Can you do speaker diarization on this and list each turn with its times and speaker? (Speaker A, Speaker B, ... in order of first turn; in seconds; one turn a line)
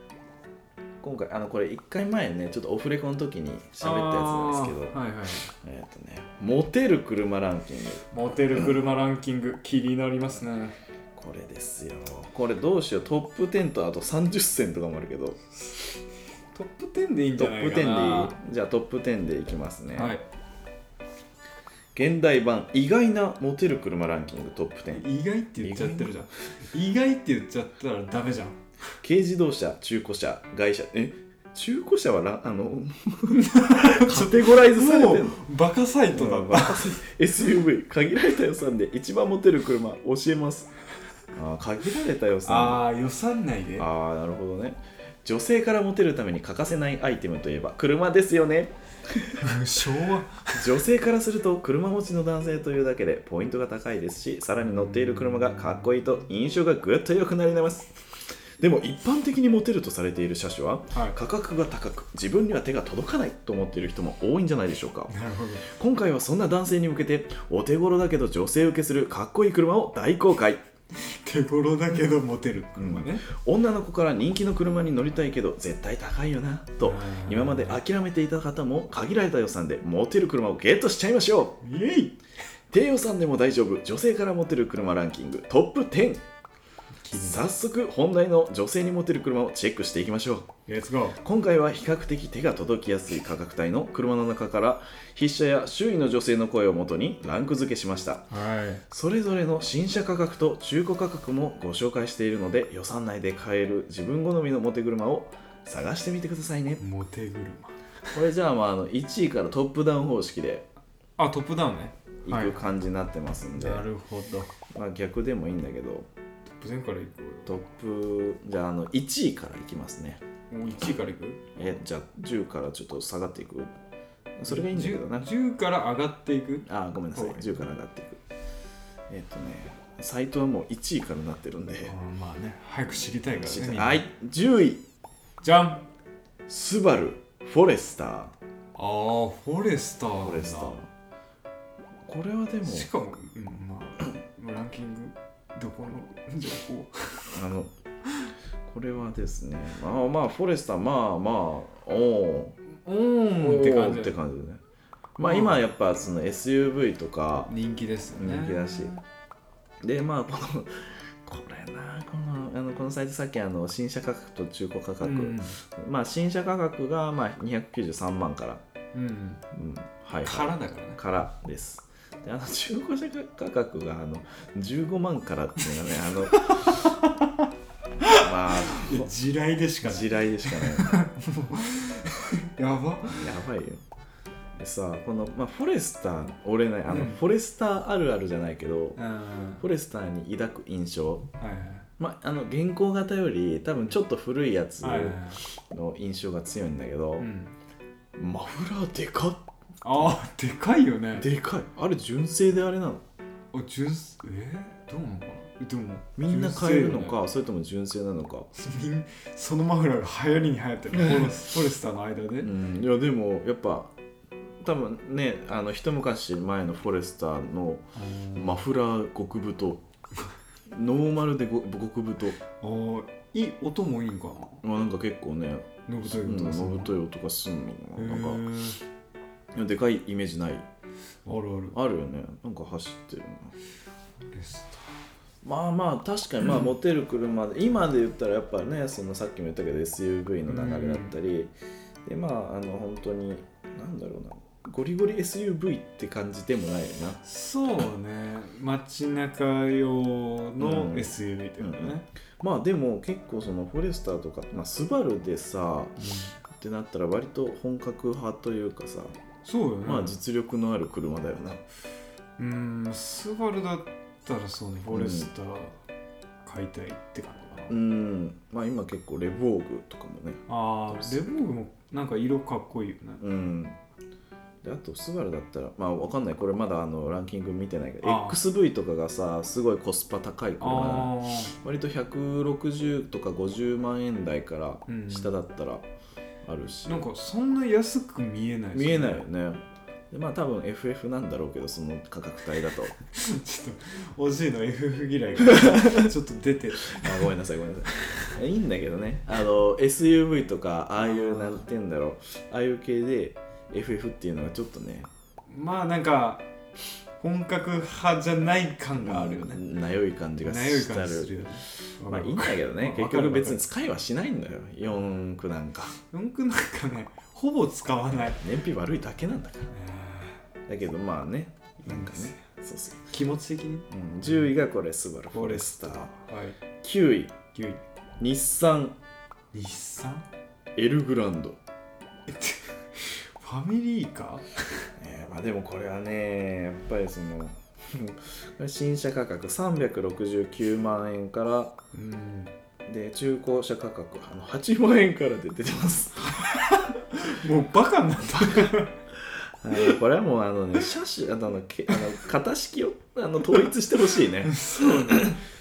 Speaker A: 1.0-5.0
Speaker B: 3.8-5.5
Speaker A: 5.6-8.7
Speaker B: 8.1-10.8
Speaker A: 11.1-15.4
Speaker B: 16.5-18.4
Speaker A: 17.4-20.1
Speaker B: 19.9-20.2
Speaker A: 21.9-25.0
Speaker B: 24.9-28.6
Speaker A: 25.6-26.1
Speaker A: 29.0-35.4
Speaker B: 33.3-37.0
Speaker A: 36.1-40.7
Speaker A: 41.3-42.8
Speaker B: 42.4-43.9
Speaker A: 43.8-49.6
Speaker B: 49.4-50.7
Speaker A: 50.5-57.9
Speaker B: 54.6-55.9
Speaker A: 58.6-65.1
Speaker B: 60.9-61.2
Speaker B: 65.1-65.7
Speaker A: 65.6-70.6
Speaker B: 70.9-73.3
Speaker A: 72.8-81.6
Speaker B: 76.8-77.8
Speaker B: 81.6-82.2
Speaker A: 82.7-86.2
Speaker B: 87.0-87.5
Speaker A: 87.1-90.5
Speaker B: 90.7-91.2
Speaker A: 91.2-98.3
Speaker B: 98.3-98.8
Speaker A: 98.9-106.8
Speaker B: 106.8-107.8
Speaker A: 108.1-110.7
Speaker B: 111.2-112.6
Speaker A: 112.2-113.8
Speaker B: 113.6-114.5
Speaker A: 114.7-116.1
Speaker B: 116.6-117.6
Speaker A: 117.5-120.2
Speaker B: 120.5-121.4
Speaker A: 121.5-123.7
Speaker A: 124.4-125.3
Speaker B: 124.5-127.6
Speaker A: 126.7-128.2
Speaker A: 129.1-131.9
Speaker B: 131.8-134.1
Speaker A: 133.4-134.8
Speaker B: 135.4-135.8
Speaker A: 136.5-138.3
Speaker B: 138.8-140.8
Speaker A: 140.2-140.9
Speaker A: 142.1-142.9
Speaker B: 142.6-147.4
Speaker A: 147.3-147.7
Speaker A: 148.7-152.6
Speaker B: 152.7-154.2
Speaker A: 153.4-154.6
Speaker A: 155.2-157.5
Speaker B: 155.2-155.6
Speaker B: 157.4-159.0
Speaker A: 158.1-158.9
Speaker A: 159.8-168.6
Speaker B: 165.0-165.6
Speaker B: 168.9-169.4
Speaker A: 169.5-176.8
Speaker B: 170.2-171.2
Speaker B: 176.3-177.5
Speaker B: 178.0-183.3
Speaker A: 178.1-179.1
Speaker A: 179.8-181.0
Speaker A: 183.1-183.8
Speaker A: 184.6-189.0
Speaker B: 186.9-187.2
Speaker B: 188.9-189.6
Speaker A: 189.6-191.3
Speaker B: 191.4-191.9
Speaker A: 192.0-197.3
Speaker B: 194.8-195.4
Speaker B: 197.2-197.5
Speaker A: 198.1-199.4
Speaker B: 199.8-201.3
Speaker A: 201.1-203.0
Speaker B: 203.5-207.2
Speaker A: 206.2-208.5
Speaker B: 208.5-212.5
Speaker A: 211.0-211.3
Speaker A: 212.4-213.9
Speaker A: 214.6-219.8
Speaker B: 217.9-218.7
Speaker A: 220.7-222.4
Speaker B: 222.6-224.6
Speaker A: 224.6-228.4
Speaker B: 225.9-227.0
Speaker B: 228.0-228.8
Speaker A: 229.5-230.7
Speaker B: 231.2-231.8
Speaker A: 231.7-233.5
Speaker B: 234.2-235.0
Speaker A: 235.4-241.5
Speaker B: 240.5-241.2
Speaker A: 242.0-247.2
Speaker B: 247.2-252.0
Speaker A: 250.6-255.9
Speaker B: 256.0-256.4
Speaker A: 256.5-259.2
Speaker B: 259.4-260.1
Speaker A: 259.8-261.6
Speaker B: 262.4-265.8
Speaker A: 264.9-265.3
Speaker B: 266.4-267.8
Speaker A: 267.7-271.2
Speaker B: 270.5-273.2
Speaker A: 273.2-273.8
Speaker A: 274.6-285.8
Speaker B: 278.0-278.4
Speaker B: 280.6-281.6
Speaker B: 284.9-285.3
Speaker A: 286.4-287.1
Speaker B: 286.8-289.2
Speaker A: 288.7-292.9
Speaker B: 293.1-297.3
Speaker A: 295.5-296.1
Speaker A: 296.9-305.1
Speaker B: 297.9-298.4
Speaker B: 301.0-301.6
Speaker B: 305.5-306.5
Speaker B: 307.2-309.6
Speaker A: 309.0-311.4
Speaker B: 310.4-313.6
Speaker A: 312.1-316.0
Speaker B: 316.1-318.4
Speaker A: 318.1-319.7
Speaker B: 319.7-320.4
Speaker A: 320.7-323.0
Speaker B: 321.8-322.4
Speaker B: 323.0-324.5
Speaker A: 323.9-326.1
Speaker B: 325.3-326.6
Speaker A: 326.8-327.4
Speaker B: 327.5-327.8
Speaker A: 328.2-329.0
Speaker B: 329.5-330.2
Speaker A: 330.8-331.6
Speaker B: 332.3-334.9
Speaker A: 335.0-341.8
Speaker B: 341.9-342.5
Speaker A: 342.9-346.4
Speaker B: 346.3-348.9
Speaker A: 348.3-348.7
Speaker A: 349.3-355.4
Speaker B: 354.4-355.4